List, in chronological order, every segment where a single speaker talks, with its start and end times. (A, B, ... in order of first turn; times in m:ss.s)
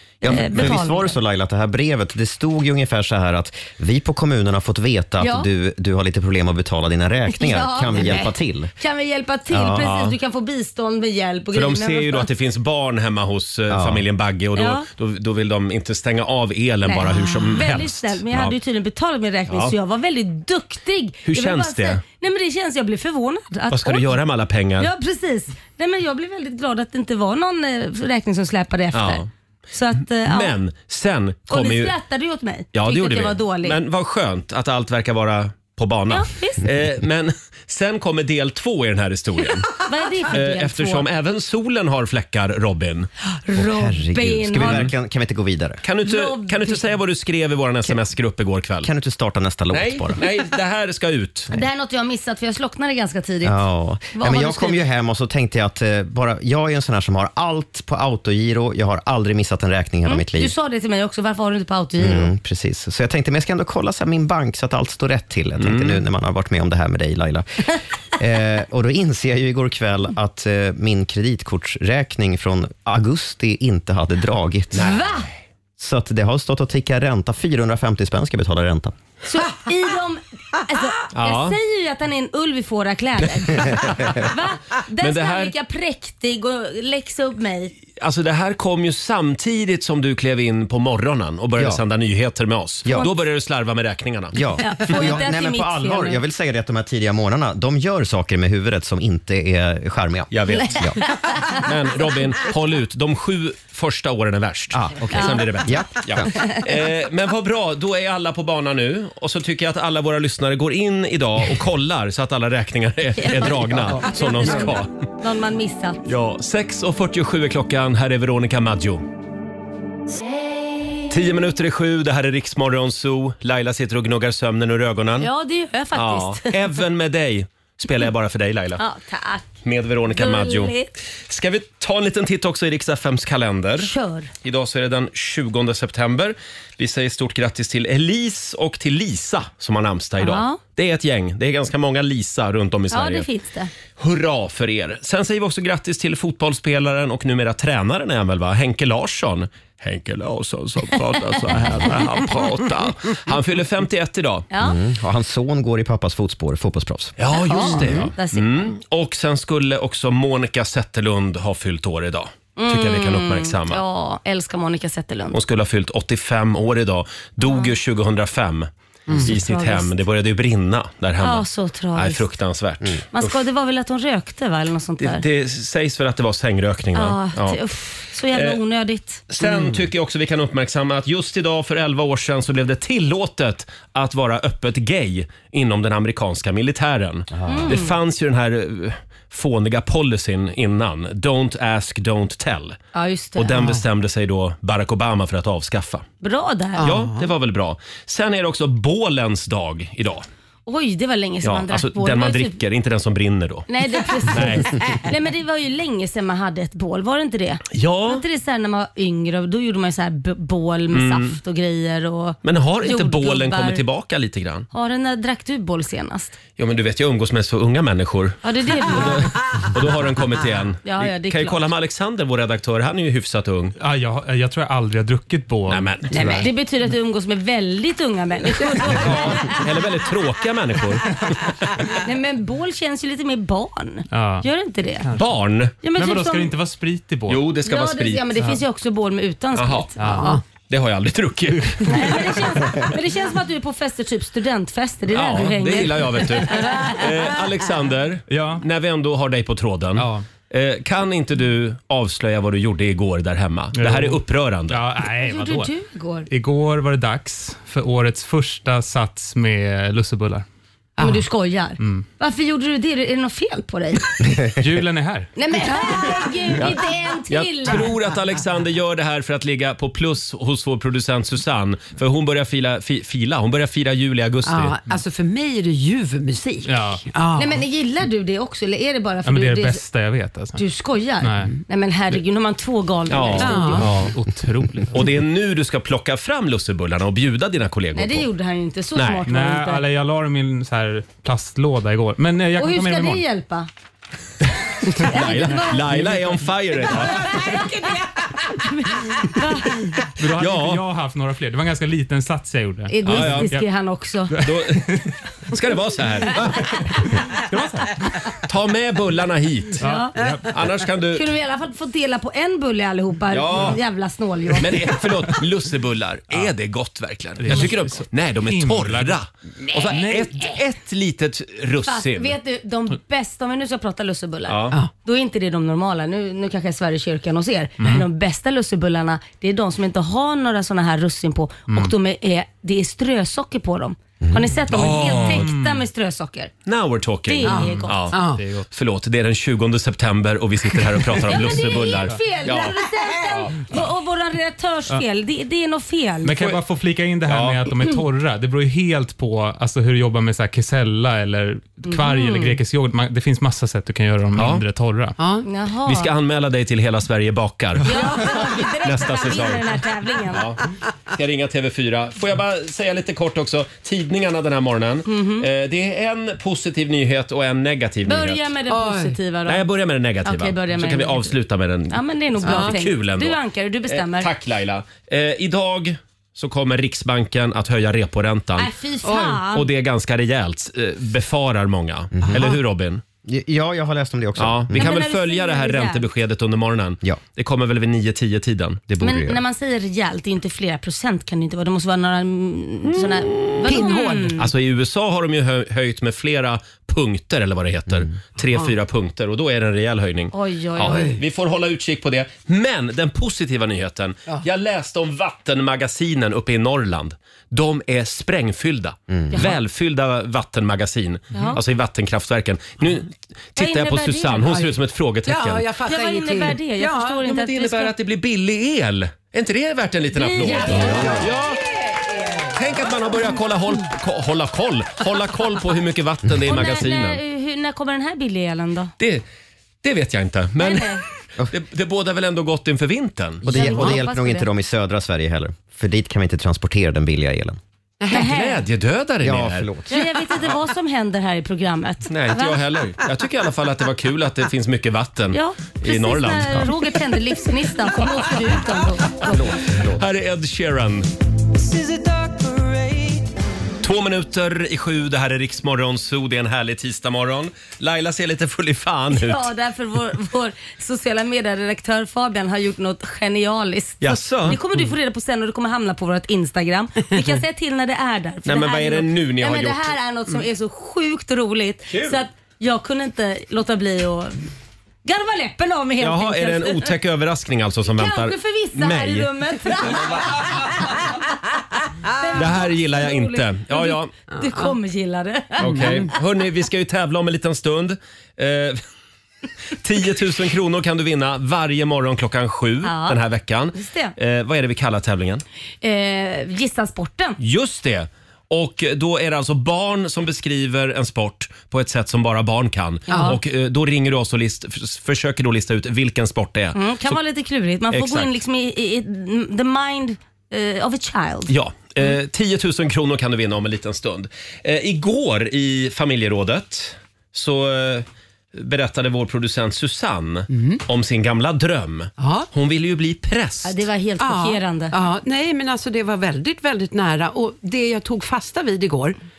0:00.2-0:08.7 A
0:00.2-0:01.2 B
0:05.2-0:05.5 B
0:07.3-0:12.3 B
0:09.5-0:09.9 A
0:09.8-0:10.2 C
0:11.5-0:18.6 C
0:13.7-0:14.0 A
0:14.6-0:14.9 B
0:16.8-0:24.1 B
0:19.5-0:19.8 C
0:21.3-0:22.0 C
0:23.7-0:24.9 C
0:24.8-0:30.6 B
0:28.9-0:29.3 C
0:30.2-0:31.9 C
0:31.5-0:33.8 B
0:32.7-0:39.7 C
0:36.1-0:36.6 B
0:39.8-0:41.1 B
0:40.3-0:43.1 C
0:43.4-0:44.8 B
0:43.6-0:45.8 A
0:44.6-0:44.9 C
0:45.8-0:48.9 C
0:46.0-0:46.8 B
0:48.8-0:50.3 A
0:49.7-0:51.5 C
0:51.5-0:53.6 B
0:53.4-1:00.5 A
0:54.1-0:54.8 B
1:00.1-1:02.3 B
1:02.0-1:15.0 A
1:05.6-1:06.0 C
1:14.7-1:15.2 C
1:14.8-1:15.3 B
1:15.8-1:18.9 A
1:19.2-1:27.7 B
1:21.1-1:21.6 C
1:23.6-1:24.2 C
1:25.0-1:25.5 C
1:28.0-1:34.4 C
1:32.8-1:33.1 A
1:34.3-1:41.0 A
1:34.6-1:36.2 B
1:40.3-1:40.9 C
1:41.2-1:41.5 B
1:41.5-1:54.9 C
1:44.7-1:46.3 A
1:45.1-1:45.6 B
1:46.4-1:46.6 B
1:54.1-1:56.0 B
1:56.1-1:59.0 C
2:01.1-2:05.3 C
2:05.2-2:06.5 B
2:05.9-2:08.8 C
2:08.8-2:09.5 B
2:09.6-2:10.8 C
2:10.1-2:10.9 B
2:11.3-2:13.9 C
2:13.8-2:14.3 B
2:14.4-2:23.3 C
2:20.2-2:20.6 B
2:22.9-2:23.7 B
2:24.0-2:34.5 C
2:34.5-2:34.8 B
2:34.6-2:38.1 A
2:37.2-2:43.8 C
2:37.3-2:38.7 B
2:42.6-2:45.4 B
2:45.3-2:53.3 C
2:47.4-2:47.7 B
2:49.2-2:50.0 B
2:51.2-2:52.2 B
2:53.1-2:55.2 B
2:55.0-2:57.6 C
2:57.0-2:59.2 B
2:58.3-2:58.6 C
2:59.3-3:12.8 C
3:07.4-3:07.8 A
3:07.5-3:08.0 B
3:12.9-3:13.6 B
3:13.4-3:16.0 C
3:13.6-3:13.8 D
3:16.2-3:16.9 B
3:16.8-3:17.3 D
3:16.8-3:20.2 C
3:20.7-3:22.6 B
3:21.4-3:23.7 C
3:23.7-3:33.8 B
3:24.3-3:24.8 C
3:27.7-3:28.2 C
3:30.9-3:31.4 C
3:32.4-3:34.7 C
3:34.7-3:36.4 B
3:36.6-3:43.8 C
3:38.4-3:39.3 B
3:40.8-3:41.6 B
3:43.8-3:46.5 E
3:45.7-3:46.1 C
3:46.1-3:46.5 D
3:46.4-3:49.6 B
3:48.9-3:51.4 C
3:52.0-3:55.1 B
3:54.1-3:54.5 E
3:55.0-3:55.3 E
3:55.2-3:55.7 C
3:55.8-3:56.6 B
3:56.0-3:57.4 E
3:57.3-3:58.3 C
3:57.7-4:00.4 B
3:59.6-3:59.9 C
4:00.0-4:00.3 E
4:00.1-4:00.4 D
4:00.7-4:02.2 C
4:01.9-4:07.1 B
4:05.1-4:14.8 C
4:08.3-4:08.6 E
4:10.0-4:10.3 E
4:13.7-4:15.7 E
4:15.2-4:16.3 B
4:16.3-4:20.5 E
4:21.0-4:21.2 D
4:21.0-4:24.1 B
4:24.6-4:25.3 E
4:25.4-4:27.9 B
4:27.3-4:34.8 C
4:34.4-4:37.6 D
4:36.7-4:37.0 E
4:37.4-4:39.8 B
4:39.2-4:40.6 E
4:40.6-4:43.9 B
4:41.2-4:41.5 E
4:43.1-4:44.1 C
4:43.4-4:45.1 E
4:43.4-4:43.9 D
4:44.9-4:48.3 C
4:48.0-4:49.9 B
4:49.0-4:49.2 C
4:49.3-4:53.2 E
4:52.6-4:53.7 B
4:54.8-4:56.0 B
4:54.9-4:55.2 E
4:54.9-4:57.3 C
4:55.9-4:56.3 E
4:57.2-4:57.8 B
4:57.4-4:58.3 D
4:58.6-5:00.0 B
5:00.2-5:03.7 E
5:00.4-5:00.8 C
5:02.9-5:04.3 B
5:03.1-5:03.5 C
5:04.3-5:05.1 E
5:04.4-5:07.0 C
5:06.9-5:08.0 E
5:08.5-5:09.8 C
5:09.8-5:10.5 E
5:09.8-5:10.1 B
5:10.5-5:11.3 C
5:11.1-5:14.8 B
5:13.3-5:13.8 C
5:14.6-5:22.4 C
5:17.4-5:19.2 E
5:19.9-5:20.4 E
5:21.9-5:36.5 B
5:24.5-5:24.8 C
5:34.7-5:35.5 C
5:34.7-5:35.8 E
5:36.7-5:38.2 C
5:37.3-5:38.0 B
5:37.5-5:38.4 D
5:37.5-5:38.7 E
5:38.7-5:43.4 C
5:41.3-5:46.4 B
5:46.2-5:55.2 E
5:47.3-5:47.7 C
5:51.8-5:52.6 B
5:54.4-5:54.6 C
5:55.2-5:55.4 D
5:55.4-5:56.1 B
5:55.8-6:00.6 C
5:57.9-6:00.4 B
6:01.1-6:08.5 C
6:05.1-6:05.5 B
6:08.1-6:09.6 B
6:08.7-6:09.2 D
6:09.5-6:18.7 C
6:10.2-6:11.3 B
6:11.9-6:14.3 B
6:12.4-6:12.8 D
6:18.6-6:19.7 B
6:19.0-6:19.4 D
6:19.5-6:23.0 C
6:22.2-6:22.4 A
6:22.3-6:22.6 D
6:23.2-6:24.9 A
6:24.4-6:29.2 C
6:24.8-6:26.0 B
6:29.0-6:34.5 B
6:29.0-6:29.4 A
6:33.6-6:34.5 D
6:34.4-6:55.7 C
6:40.3-6:41.1 B
6:40.8-6:41.2 D
6:51.3-6:51.6 B
6:53.6-6:54.6 B
6:55.2-6:57.2 D
6:55.8-6:57.9 B
6:57.2-7:01.6 C
7:00.1-7:01.3 B
7:00.4-7:02.9 D
7:02.5-7:07.2 C
7:06.4-7:08.9 B
7:09.0-7:09.2 C
7:09.8-7:13.7 C
7:10.6-7:11.0 B
7:13.4-7:17.6 A
7:13.5-7:14.5 B
7:18.0-7:18.6 D
7:18.1-7:18.6 B
7:18.2-7:19.7 C
7:19.2-7:20.0 A
7:19.9-7:22.6 B
7:22.1-7:26.7 C
7:25.3-7:29.4 B
7:29.3-7:30.0 A
7:29.7-7:31.1 C
7:31.8-7:33.1 D
7:33.8-7:39.5 C
7:39.1-7:54.4 B
7:44.0-7:44.6 C
7:48.4-7:50.0 C
7:55.0-7:56.9 B
7:56.0-7:59.3 C
7:57.9-8:01.2 B
8:02.1-8:06.1 B
8:02.4-8:04.1 C
8:04.4-8:04.7 D
8:05.6-8:08.8 C
8:09.8-8:15.4 C
8:12.8-8:13.2 B
8:13.7-8:14.1 B
8:15.8-8:17.4 B
8:17.4-8:27.2 C
8:23.1-8:23.4 D
8:23.1-8:23.4 B
8:26.7-8:31.5 B
8:27.9-8:28.3 C
8:31.5-8:43.8 C
8:40.5-8:40.8 D
8:42.2-8:42.5 D
8:43.6-8:45.0 B
8:44.2-8:49.2 D